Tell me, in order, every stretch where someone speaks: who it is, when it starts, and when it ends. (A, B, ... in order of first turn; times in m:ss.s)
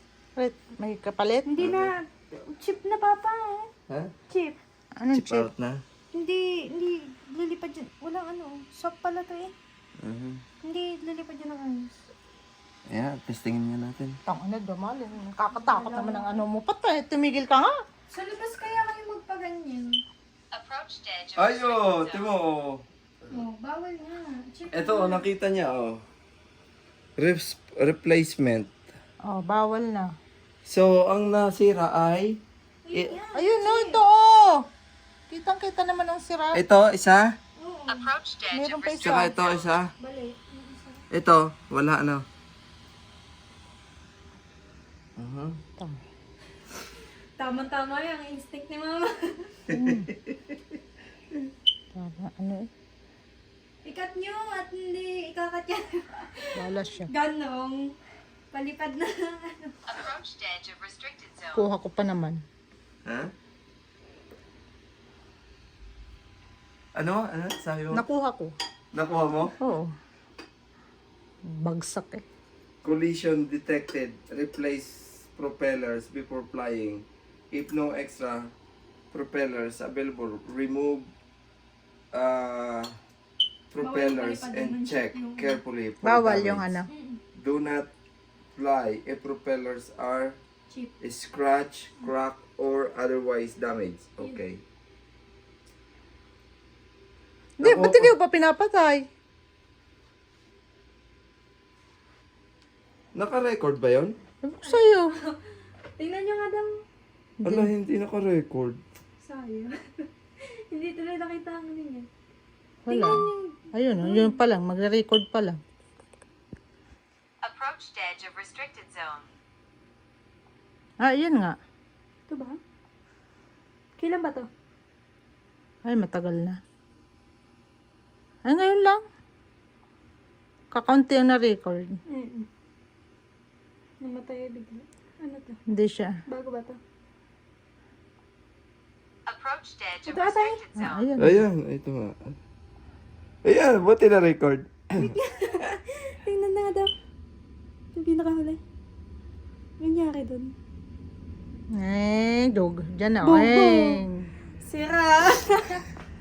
0:00.4-0:01.4 A
0:01.5-0:03.7 B
0:01.6-0:01.9 C
0:04.3-0:04.6 B
0:05.0-0:05.5 A
0:05.1-0:05.8 C
0:06.1-0:09.5 B
0:10.0-0:10.4 C
0:10.6-0:11.9 B
0:12.9-0:14.2 C
0:14.3-0:17.7 A
0:15.5-0:16.4 B
0:18.1-0:19.9 B
0:20.5-0:22.2 D
0:21.4-0:22.8 C
0:23.3-0:25.2 B
0:24.7-0:26.0 C
0:27.2-0:28.7 C
0:29.3-0:30.1 A
0:30.6-0:32.4 C
0:32.9-0:34.0 B
0:33.3-0:34.6 A
0:35.3-0:36.6 A
0:36.5-0:37.2 C
0:37.6-0:38.1 B
0:37.9-0:39.6 D
0:38.5-0:39.4 A
0:39.0-0:39.9 C
0:40.0-0:41.0 B
0:41.1-0:42.2 C
0:45.2-0:45.6 C
0:47.4-0:49.6 B
0:49.7-0:50.1 A
0:49.7-0:50.1 C
0:51.9-0:52.7 A
0:53.8-0:58.0 B
0:56.6-0:57.1 A
0:58.5-0:59.8 B
0:59.9-1:01.6 D
1:01.5-1:02.4 A
1:03.0-1:03.3 C
1:07.0-1:08.0 C
1:07.9-1:08.5 A
1:08.9-1:09.5 C
1:09.6-1:09.9 A
1:11.6-1:12.2 A
1:12.8-1:18.4 C
1:19.1-1:21.1 C
1:22.1-1:22.9 C
1:23.7-1:26.7 C
1:23.8-1:25.6 B
1:26.0-1:26.9 A
1:26.9-1:27.2 B
1:27.4-1:27.9 C
1:28.5-1:30.4 C
1:31.0-1:34.6 C
1:37.6-1:39.0 A
1:37.6-1:38.1 C
1:43.2-1:44.1 C
1:44.4-1:45.1 A
1:44.6-1:45.4 B
1:46.0-1:46.7 B
1:47.4-1:47.7 A
1:47.4-1:48.8 C
1:49.2-1:49.7 B
1:50.4-1:52.1 B
1:52.9-1:55.6 A
1:52.9-1:54.4 B
1:57.4-1:59.3 D
2:01.0-2:01.6 A
2:02.3-2:02.6 B
2:04.0-2:04.4 B
2:05.8-2:06.6 A
2:08.5-2:09.0 A
2:10.7-2:11.9 A
2:12.1-2:12.5 B
2:14.0-2:15.6 B
2:15.7-2:16.1 A
2:16.3-2:16.8 B
2:19.3-2:21.0 D
2:20.1-2:20.6 B
2:20.8-2:21.4 A
2:21.2-2:22.3 C
2:23.4-2:25.1 C
2:25.0-2:26.9 B
2:27.9-2:28.6 B
2:29.8-2:30.5 B
2:31.8-2:34.3 A
2:33.2-2:34.0 B
2:34.6-2:35.8 B